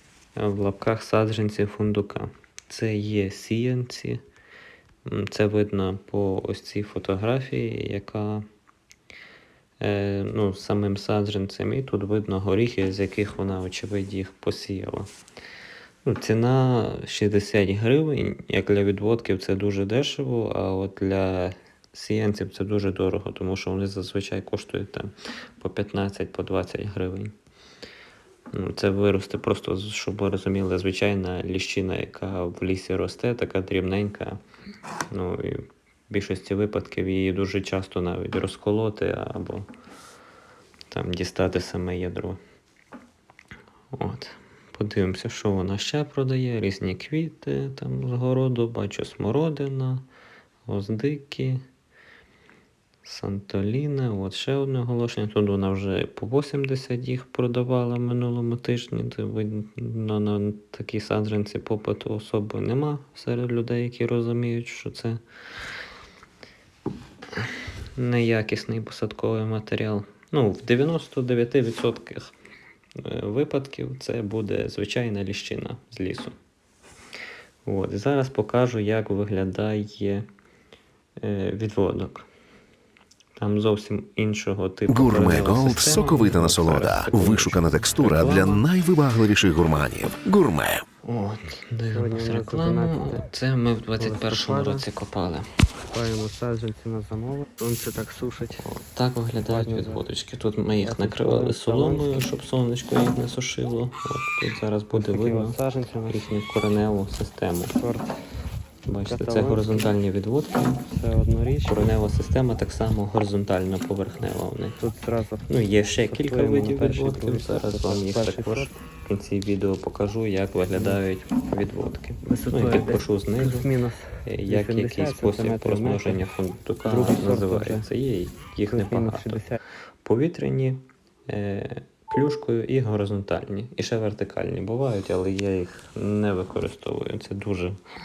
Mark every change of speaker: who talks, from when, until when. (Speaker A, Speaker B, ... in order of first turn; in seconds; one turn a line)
Speaker A: 0.3-4.2
Speaker A: 5.0-8.4
Speaker A: 9.8-15.1
Speaker A: 16.0-27.3
Speaker A: 28.5-34.4
Speaker A: 35.1-39.7
Speaker A: 40.9-42.4
Speaker A: 43.9-50.0
Speaker A: 50.7-51.6
Speaker A: 53.0-65.2
Speaker A: 67.4-72.3
Speaker A: 73.0-76.3
Speaker A: 77.6-80.3
Speaker A: 81.2-82.3
Speaker A: 83.3-88.6
Speaker B: 84.9-90.8
Speaker A: 91.0-95.5
Speaker C: 91.9-93.3
Speaker C: 94.0-94.8
Speaker C: 95.9-98.7
Speaker A: 98.6-107.8
Speaker C: 99.5-100.0
Speaker C: 100.8-102.3
Speaker C: 104.9-106.2
Speaker C: 107.7-108.2
Speaker A: 108.8-110.8
Speaker C: 109.0-109.9
Speaker C: 110.8-111.9
Speaker A: 111.7-114.8
Speaker C: 114.8-115.5
Speaker A: 115.5-123.7
Speaker C: 116.0-118.7
Speaker C: 120.7-121.0
Speaker C: 122.2-126.2
Speaker A: 124.2-129.4
Speaker C: 126.8-127.8
Speaker C: 128.7-129.6
Speaker A: 130.0-137.8